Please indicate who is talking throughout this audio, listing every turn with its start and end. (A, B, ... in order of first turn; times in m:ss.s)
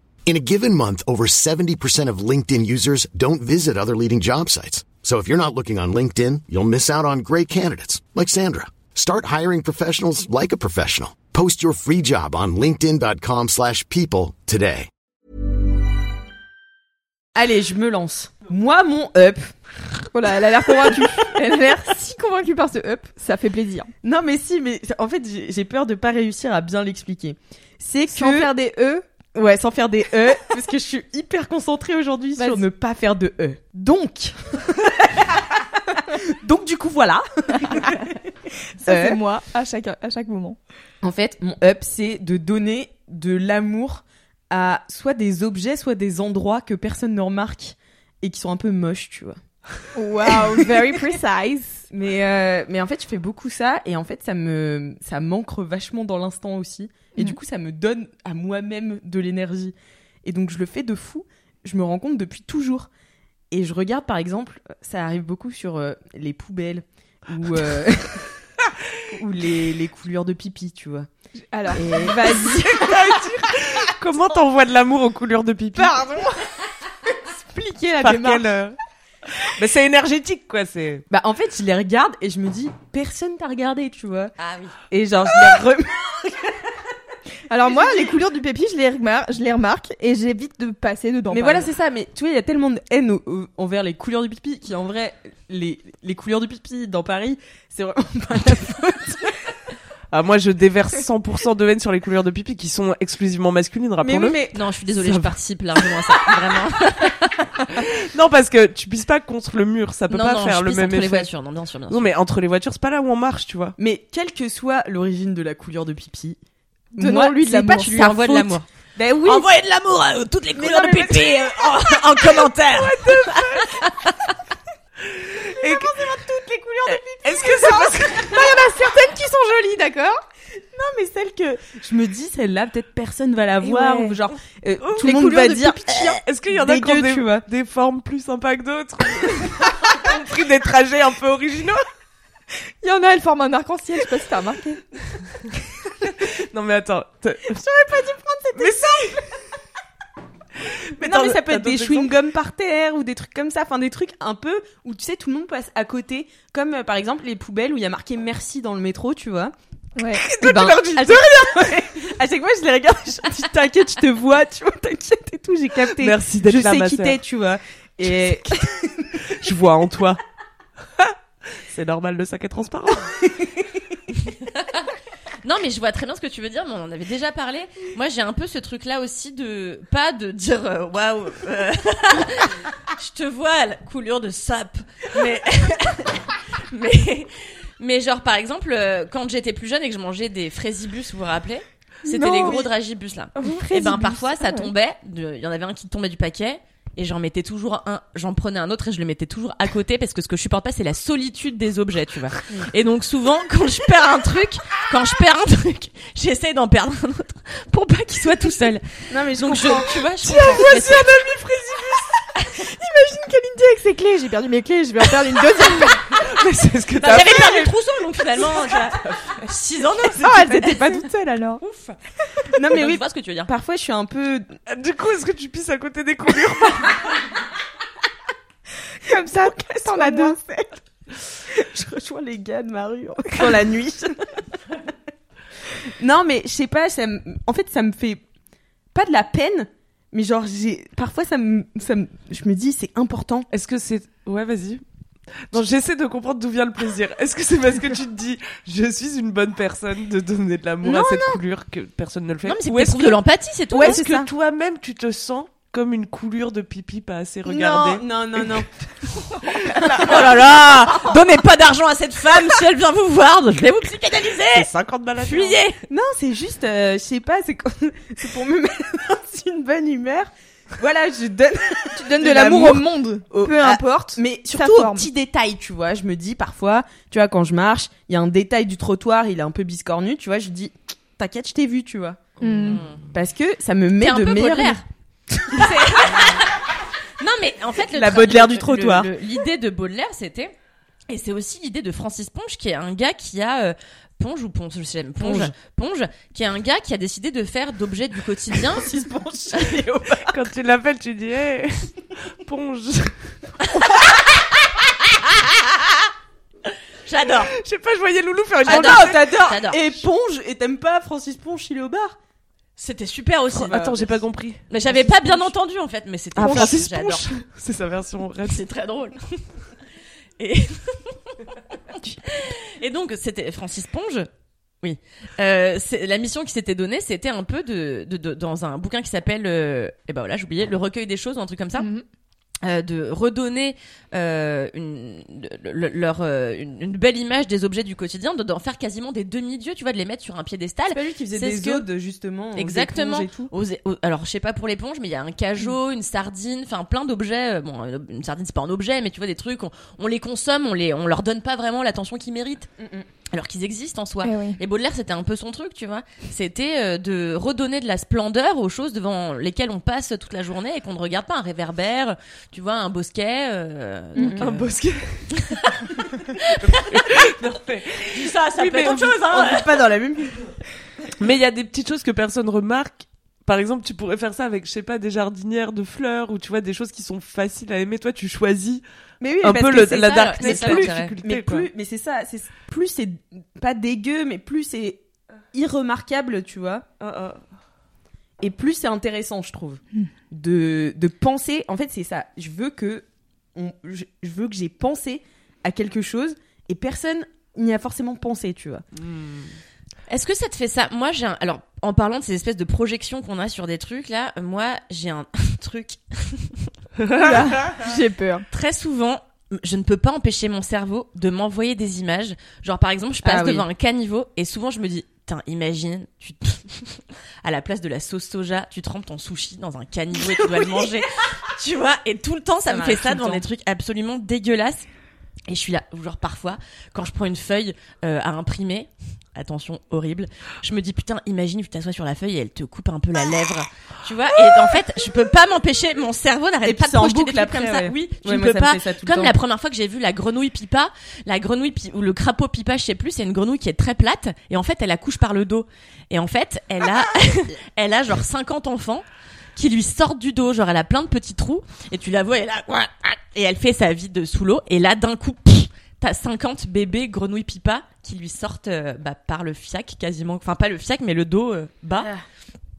0:00.3-0:14.9 A
0:17.4-0:20.1 B
0:20.1-0:23.9 C
0:20.7-0:21.2 B
0:24.0-0:28.5 B
0:28.1-0:29.0 C
0:29.3-0:38.1 B
0:32.4-0:32.6 C
0:38.8-0:40.6 C
0:38.8-0:39.2 B
0:41.0-0:49.4 B
0:50.0-0:51.9 C
0:50.2-0:51.0 B
0:51.9-1:02.9 B
1:03.5-1:08.3 B
1:09.1-1:11.1 B
1:11.5-1:12.7 C
1:11.7-1:13.2 B
1:12.8-1:15.9 D
1:15.8-1:16.6 C
1:17.6-1:18.4 C
1:18.0-1:18.8 D
1:19.6-1:21.1 D
1:21.1-1:24.3 B
1:24.4-1:24.8 E
1:24.9-1:26.6 B
1:27.5-1:31.7 C
1:27.7-1:28.0 B
1:31.3-1:39.7 B
1:40.1-1:45.4 D
1:44.0-1:44.6 B
1:44.5-1:47.4 E
1:47.8-1:51.3 D
1:50.1-1:52.0 E
1:51.9-1:53.8 D
1:53.8-1:56.4 B
1:56.9-1:59.5 B
1:57.0-1:58.2 C
1:57.8-1:58.7 E
1:59.2-2:04.3 E
2:00.6-2:03.7 B
2:05.1-2:05.9 D
2:05.5-2:08.9 B
2:06.9-2:08.4 D
2:08.3-2:10.2 C
2:10.7-2:17.4 B
2:13.6-2:14.2 C
2:14.8-2:15.1 D
2:15.0-2:15.8 C
2:16.0-2:21.8 D
2:22.8-2:24.8 C
2:26.0-2:27.6 D
2:27.6-2:29.2 B
2:28.6-2:29.2 D
2:30.6-2:32.1 D
2:31.0-2:39.5 B
2:40.0-2:40.3 C
2:40.1-2:49.2 B
2:40.3-2:41.3 D
2:46.0-2:47.2 D
2:49.4-2:50.2 D
2:51.7-2:53.1 D
2:53.2-2:54.0 B
2:54.2-2:54.9 E
2:55.4-3:31.2 E
3:12.1-3:12.7 C
3:13.4-3:14.7 C
3:29.1-3:32.0 B
3:33.0-3:36.0 C
3:36.1-3:37.7 D
3:37.0-3:41.0 E
3:37.2-3:37.5 B
3:38.6-3:39.2 D
3:40.2-3:41.6 C
3:41.6-3:42.0 E
3:42.6-3:44.5 B
3:42.7-3:43.5 E
3:44.7-3:47.1 D
3:49.0-3:50.4 C
3:49.4-3:54.2 B
3:56.0-3:58.2 B
3:58.9-4:03.5 B
4:03.5-4:04.8 D
4:05.5-4:18.6 D
4:10.8-4:11.4 B
4:12.4-4:14.0 E
4:13.7-4:14.3 B
4:17.4-4:20.5 B
4:20.0-4:24.7 E
4:24.5-4:25.6 D
4:25.2-4:25.8 E
4:25.9-4:42.3 B
4:32.0-4:35.1 C
4:42.4-4:42.8 C
4:42.4-4:43.0 E
4:43.0-4:44.8 B
4:44.0-4:44.8 E
4:45.3-4:45.6 B
4:45.6-4:46.5 E
4:47.2-4:50.5 E
4:47.9-4:49.1 B
4:51.1-4:58.9 E
4:55.2-4:55.5 B
4:58.7-5:00.4 B
4:59.6-4:59.8 E
5:00.3-5:03.5 D
5:03.7-5:05.3 E
5:07.0-5:07.5 E
5:07.6-5:09.3 D
5:08.6-5:12.2 B
5:08.7-5:09.8 E
5:12.8-5:13.9 E
5:13.5-5:14.7 D
5:13.8-5:14.1 B
5:14.7-5:17.3 E
5:14.8-5:15.5 B
5:16.4-5:18.6 D
5:16.4-5:16.7 B
5:18.5-5:19.6 E
5:20.4-5:21.4 E
5:22.3-5:24.3 E
5:24.8-5:31.9 E
5:31.8-5:32.0 C
5:32.6-5:41.9 E
5:40.9-5:43.5 B
5:42.6-5:52.7 E
5:52.8-5:53.1 B
5:53.3-6:04.7 E
5:54.2-5:54.6 C
6:04.2-6:04.5 B
6:04.4-6:05.5 D
6:06.6-6:09.2 D
6:08.1-6:09.8 E
6:09.2-6:10.6 B
6:11.2-6:18.8 D
6:19.2-6:25.0 B
6:19.4-6:21.7 D
6:19.9-6:21.2 E
6:25.5-6:26.8 B
6:27.0-6:27.4 D
6:28.4-6:33.0 B
6:33.6-6:38.8 B
6:39.0-6:39.6 D
6:40.1-6:46.7 E
6:47.0-6:47.8 D
6:47.2-6:48.4 C
6:48.5-7:04.9 E
6:53.2-6:53.6 B
7:02.7-7:03.5 B
7:05.5-7:42.1 E
7:16.6-7:19.4 B